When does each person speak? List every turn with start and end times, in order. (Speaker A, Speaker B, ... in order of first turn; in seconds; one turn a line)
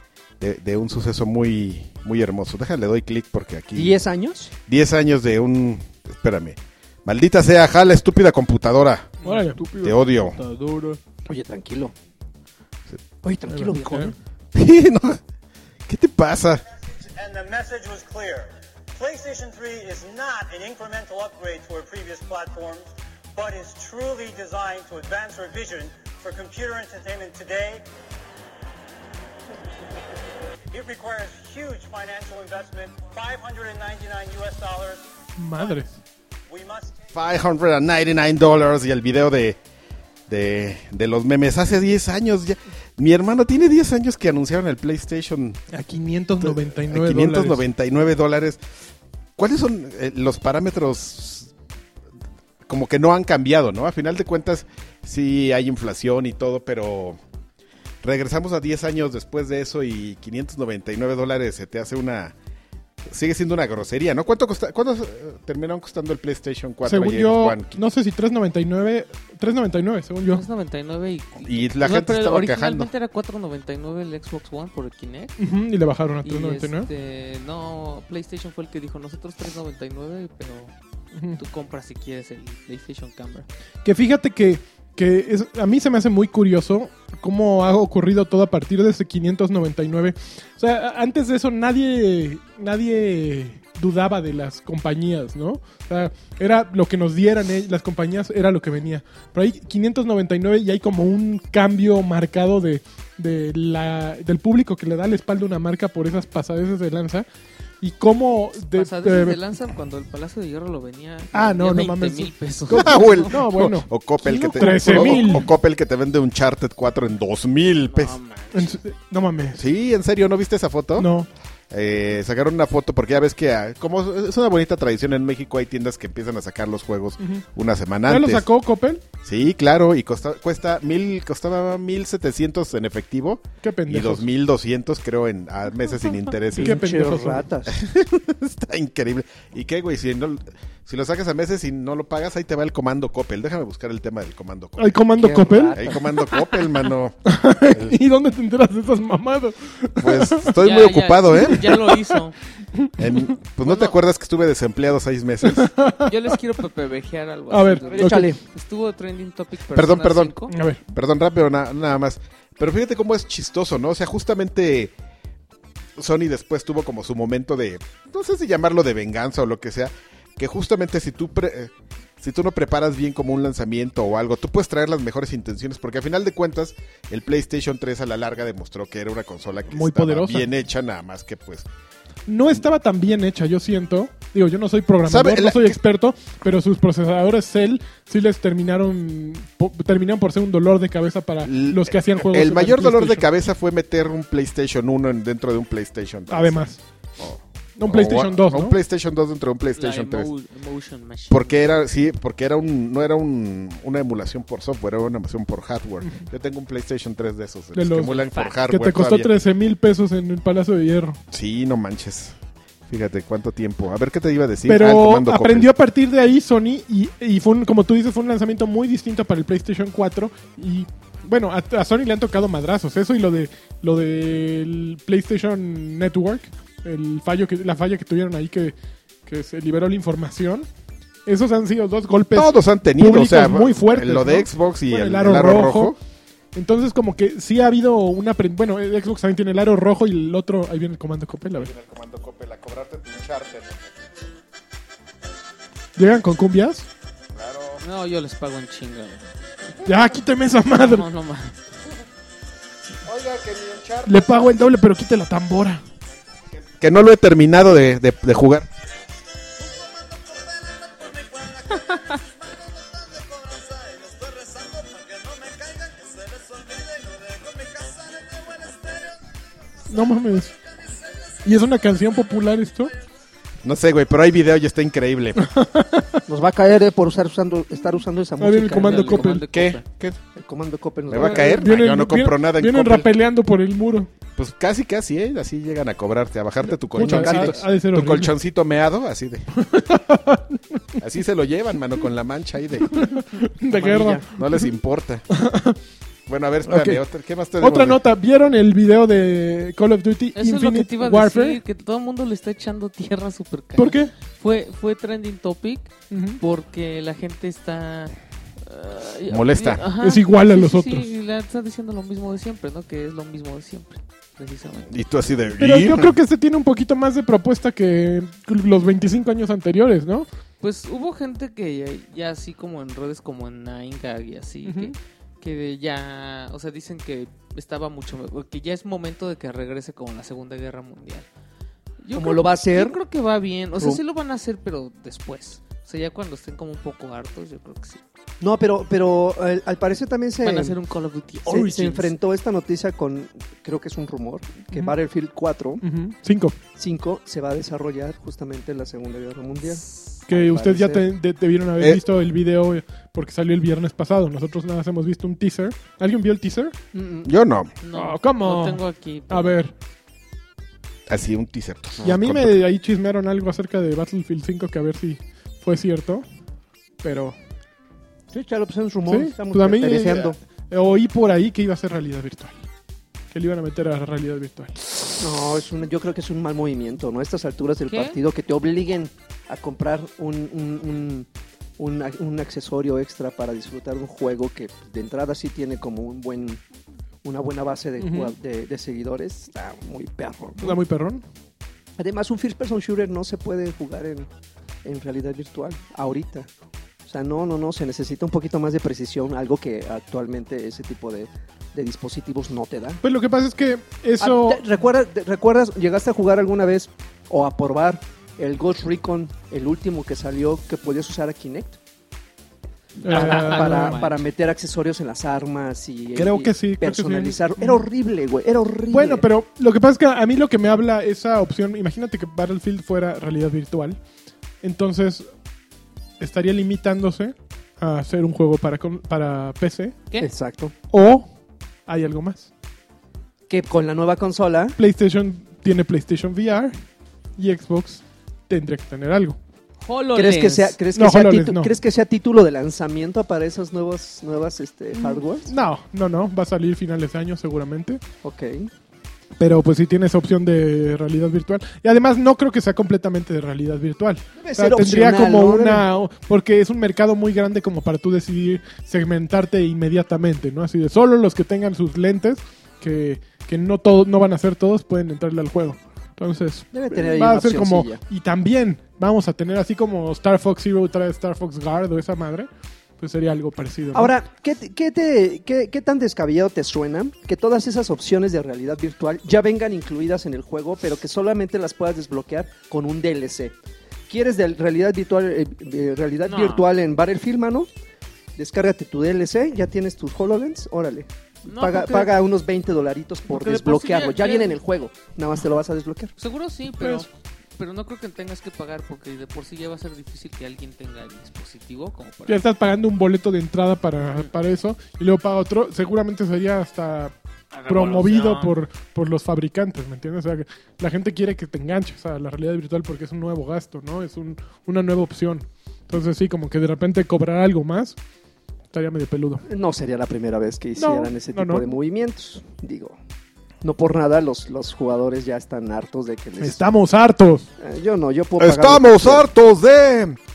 Speaker A: 0.4-4.0
Speaker B: 3.8-4.5
Speaker A: 4.7-9.2
Speaker C: 9.2-11.0
Speaker D: 9.2-10.0
Speaker A: 9.8-10.4
Speaker B: 11.3-11.9
Speaker B: 13.2-14.2
Speaker D: 13.5-14.1
Speaker A: 14.5-15.2
Speaker A: 15.9-16.6
Speaker E: 16.9-27.8
Speaker E: 30.7-35.0
Speaker D: 35.4-36.0
Speaker E: 36.5-37.0
Speaker A: 37.1-39.6
Speaker A: 40.3-45.6
Speaker D: 45.7-47.6
Speaker A: 46.4-48.6
Speaker A: 49.4-51.5
Speaker A: 52.7-57.2
Speaker A: 58.0-62.4
Speaker A: 63.1-67.8
Speaker D: 66.8-70.5
Speaker C: 70.3-75.3
Speaker A: 71.4-72.9
Speaker D: 75.4-76.9
Speaker C: 76.2-80.7
Speaker C: 81.4-83.5
Speaker D: 83.8-107.3
Speaker D: 107.8-109.4
Speaker C: 108.7-113.4
Speaker D: 111.3-115.5
Speaker A: 112.7-118.2
Speaker C: 114.6-115.3
Speaker C: 117.9-118.8
Speaker D: 118.5-119.6
Speaker A: 119.5-121.1
Speaker D: 121.0-121.3
Speaker A: 121.7-128.5
Speaker D: 128.1-129.0
Speaker A: 129.2-136.9
Speaker D: 133.6-134.3
Speaker D: 136.5-137.5
Speaker B: 136.6-137.8
Speaker A: 137.7-145.0
Speaker D: 144.8-145.9
Speaker B: 145.2-145.9
Speaker A: 145.7-148.0
Speaker D: 147.3-150.6
Speaker A: 150.0-151.8
Speaker C: 150.6-152.3
Speaker D: 151.6-152.0
Speaker A: 153.0-155.7
Speaker C: 153.6-153.9
Speaker D: 155.4-156.1
Speaker C: 156.1-160.5
Speaker D: 157.5-158.3
Speaker B: 157.9-158.4
Speaker A: 159.7-160.4
Speaker D: 160.5-160.8
Speaker A: 160.9-164.9
Speaker A: 166.0-181.7
Speaker D: 179.7-180.5
Speaker D: 182.3-193.3
Speaker A: 185.1-185.8
Speaker A: 191.4-196.6
Speaker D: 196.3-196.8
Speaker A: 197.2-200.3
Speaker D: 197.8-198.8
Speaker C: 199.8-201.7
Speaker A: 201.3-209.3
Speaker D: 207.8-211.2
Speaker C: 208.2-208.6
Speaker A: 211.3-212.4
Speaker A: 212.9-215.7
Speaker D: 214.7-228.8
Speaker D: 229.3-230.7
Speaker D: 231.3-236.0
Speaker A: 232.3-236.0
Speaker D: 236.6-241.7
Speaker A: 241.6-243.9
Speaker D: 246.0-246.9
Speaker A: 247.3-247.8
Speaker C: 247.8-249.3
Speaker D: 249.8-251.1
Speaker C: 250.7-251.6
Speaker A: 253.0-254.3
Speaker D: 254.1-255.8
Speaker A: 256.5-258.7
Speaker A: 263.3-264.8
Speaker A: 265.5-266.8
Speaker A: 267.4-268.1
Speaker D: 269.9-270.6
Speaker D: 271.4-272.9
Speaker A: 273.6-275.5
Speaker D: 275.4-276.2
Speaker B: 276.3-279.3
Speaker D: 278.4-279.4
Speaker C: 278.7-279.9
Speaker A: 279.5-280.2
Speaker B: 280.4-281.7
Speaker A: 281.1-283.1
Speaker D: 281.2-284.1
Speaker A: 284.4-289.5
Speaker D: 286.9-288.3
Speaker B: 287.0-287.6
Speaker D: 289.5-290.8
Speaker A: 291.0-293.0
Speaker D: 292.9-294.6
Speaker B: 293.7-294.2
Speaker A: 294.3-295.2
Speaker D: 295.3-295.8
Speaker A: 296.3-298.0
Speaker D: 296.7-297.0
Speaker D: 297.6-301.6
Speaker C: 300.4-314.9
Speaker D: 303.8-304.1
Speaker D: 306.1-306.4
Speaker A: 309.3-309.8
Speaker D: 310.0-311.1
Speaker A: 314.9-316.2
Speaker D: 315.6-320.3
Speaker C: 320.6-331.3
Speaker D: 324.6-324.9
Speaker C: 332.0-338.0
Speaker B: 332.2-333.0
Speaker B: 333.8-334.0
Speaker B: 338.4-340.8
Speaker C: 340.4-342.1
Speaker B: 341.5-345.8
Speaker D: 345.8-346.6
Speaker B: 346.8-351.0
Speaker D: 350.3-356.8
Speaker A: 351.8-352.0
Speaker B: 356.9-357.3
Speaker A: 357.2-357.7
Speaker C: 357.8-359.6
Speaker D: 357.9-359.7
Speaker A: 361.1-362.6
Speaker D: 362.0-366.2
Speaker D: 367.0-367.4
Speaker B: 368.3-370.4
Speaker D: 369.1-372.6
Speaker D: 373.3-374.9
Speaker B: 375.2-381.3
Speaker C: 377.9-378.2
Speaker B: 381.8-386.6
Speaker B: 387.2-390.8
Speaker D: 388.0-388.3
Speaker D: 390.6-391.2
Speaker B: 392.0-394.3
Speaker B: 394.9-396.5
Speaker B: 397.1-403.0
Speaker D: 403.0-404.6
Speaker B: 404.2-411.8
Speaker D: 413.0-414.0
Speaker C: 413.1-414.2
Speaker B: 413.1-419.2
Speaker D: 416.1-417.9
Speaker D: 418.9-424.0
Speaker D: 424.6-425.3
Speaker D: 426.2-430.0
Speaker B: 430.2-430.7
Speaker D: 430.9-431.3
Speaker D: 431.9-432.5
Speaker B: 433.5-434.8
Speaker D: 434.8-436.8
Speaker D: 437.4-439.4
Speaker C: 439.8-440.8
Speaker B: 440.1-445.5
Speaker D: 440.9-441.7
Speaker D: 444.9-448.0
Speaker B: 448.2-448.7
Speaker D: 449.4-472.5
Speaker B: 454.4-455.9
Speaker B: 466.7-468.0
Speaker D: 473.0-474.1
Speaker B: 473.9-483.6
Speaker B: 484.1-487.7
Speaker C: 486.2-486.7
Speaker B: 488.4-496.1
Speaker C: 491.4-492.1
Speaker C: 493.3-494.6
Speaker C: 496.2-502.4
Speaker D: 496.8-497.1
Speaker D: 502.3-507.1
Speaker C: 504.1-504.3
Speaker C: 507.5-508.5
Speaker D: 507.7-518.0
Speaker D: 518.7-519.4
Speaker B: 519.5-523.0
Speaker D: 520.8-521.7
Speaker B: 523.6-526.6
Speaker D: 526.4-527.5
Speaker B: 527.6-529.2
Speaker A: 528.4-530.2